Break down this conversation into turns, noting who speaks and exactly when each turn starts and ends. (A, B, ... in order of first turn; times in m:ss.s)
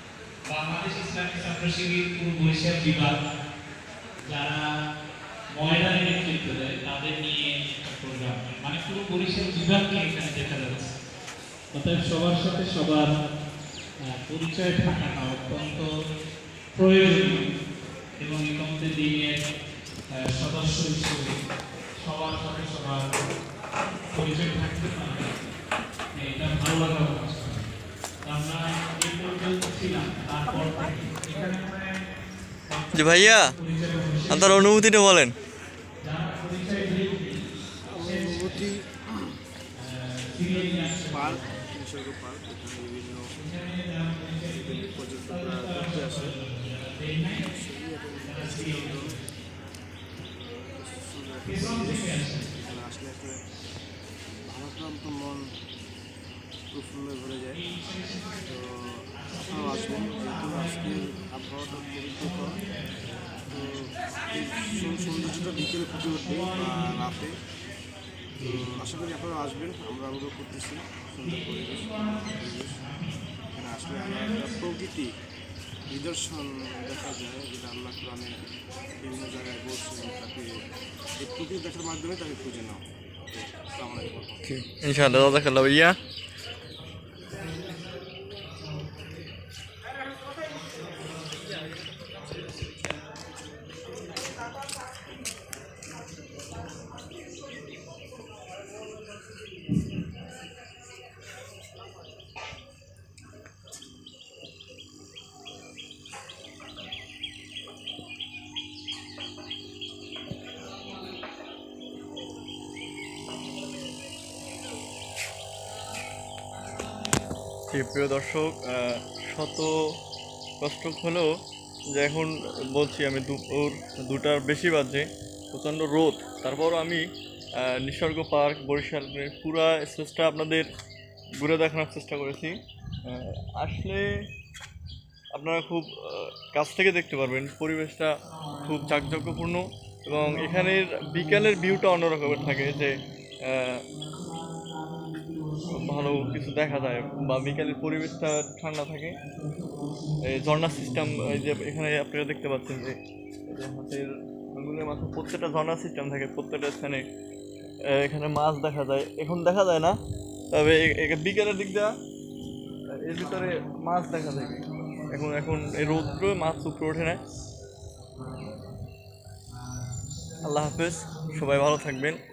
0:00.4-0:03.2 A
0:04.2-0:04.7 A
0:05.5-0:10.9 A
0:11.7-0:13.1 A
0:14.0-0:15.9 A
0:16.7-0:17.5 A
0:18.2-0:19.4 A
0:20.1-0:21.4 A
0:22.0-0:23.3 A
0:24.1-0:25.4 A
0:26.1-0:27.7 A
0:28.2-0:32.0 A
0:32.6-0:34.7 A
0:32.9-0:33.5 B
0:34.3-0:35.4 B
0:36.0-0:38.7 A
0:37.9-0:39.2 C
0:39.7-0:41.6 A
0:40.5-0:43.3 C
0:43.4-0:47.6 A
0:44.4-0:46.4 C
0:47.5-0:49.2 C
0:48.2-0:49.3 A
0:50.4-0:53.4 C
0:51.4-0:52.5 A
0:54.4-0:55.6 C
0:56.7-0:57.6 C
0:57.5-0:58.5 A
0:58.4-1:02.6 C
0:59.1-1:07.2 A
1:03.5-1:07.3 C
1:08.3-1:08.8 A
1:08.4-1:12.8 C
1:11.2-1:14.7 A
1:13.5-1:15.1 C
1:15.9-1:20.6 C
1:21.2-1:24.5 C
1:24.4-1:26.0 B
1:27.3-1:27.7 A
1:57.7-1:59.7 B
2:00.6-2:01.3 B
2:01.9-2:07.0 B
2:07.6-2:10.7 B
2:11.4-2:14.0 B
2:15.3-2:23.8 B
2:18.3-2:19.5 A
2:20.1-2:23.0 A
2:23.9-2:28.3 A
2:25.8-2:29.2 B
2:29.1-2:31.6 A
2:30.2-2:37.1 B
2:37.9-2:40.0 B
2:40.5-2:41.9 B
2:43.0-2:47.2 B
2:44.4-2:46.9 A
2:49.7-2:51.5 A
2:50.4-2:52.2 B